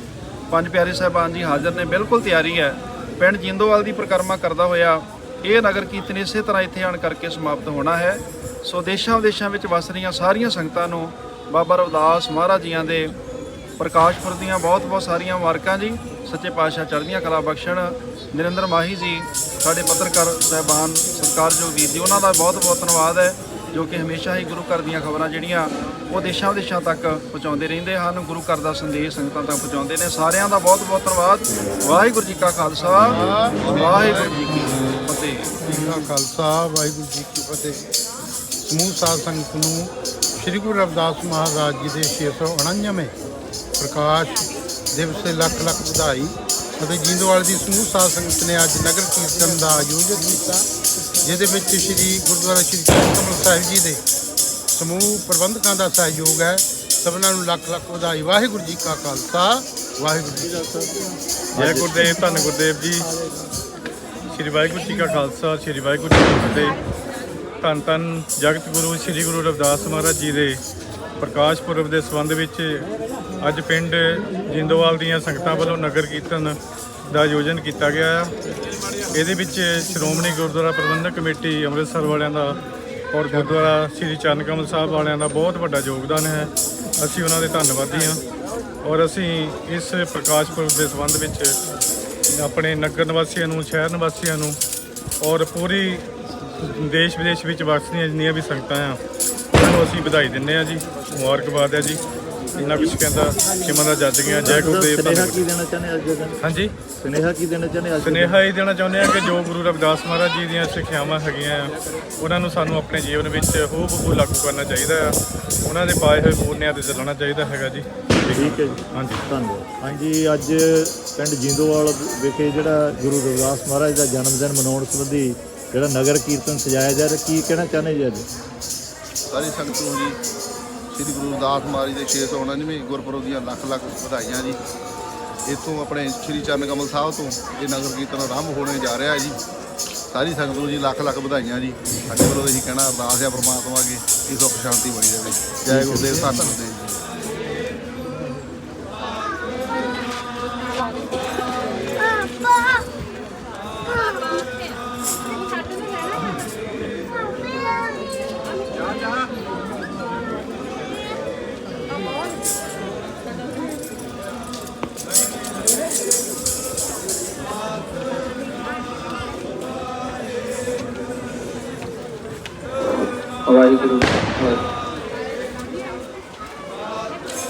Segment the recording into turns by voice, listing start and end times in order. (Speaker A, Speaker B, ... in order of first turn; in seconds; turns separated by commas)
Speaker A: 0.5-13.1, Speaker A: 13.8-35.6, Speaker B: 32.8-34.7, Speaker B: 35.6-37.9, Speaker B: 38.6-43.1, Speaker B: 43.8-50.7, Speaker B: 51.2-54.0, Speaker B: 54.7-60.6, Speaker C: 60.4-62.0, Speaker D: 61.6-63.1, Speaker D: 64.3-66.8, Speaker D: 67.6-70.6, Speaker D: 71.2-72.8, Speaker D: 73.4-76.6, Speaker D: 77.1-78.3, Speaker D: 79.1-82.6, Speaker D: 83.1-88.2, Speaker D: 88.8-91.6, Speaker D: 92.3-94.6, Speaker D: 95.2-96.0, Speaker D: 96.6-99.0, Speaker D: 99.5-102.0, Speaker D: 102.5-105.5, Speaker C: 104.3-106.4, Speaker D: 106.4-106.7, Speaker C: 107.0-108.4, Speaker D: 108.0-119.2, Speaker C: 118.3-128.3, Speaker E: 129.3-130.2, Speaker E: 130.9-134.6, Speaker E: 135.4-139.4, Speaker E: 140.1-147.0, Speaker C: 145.7-146.2, Speaker C: 173.5-174.2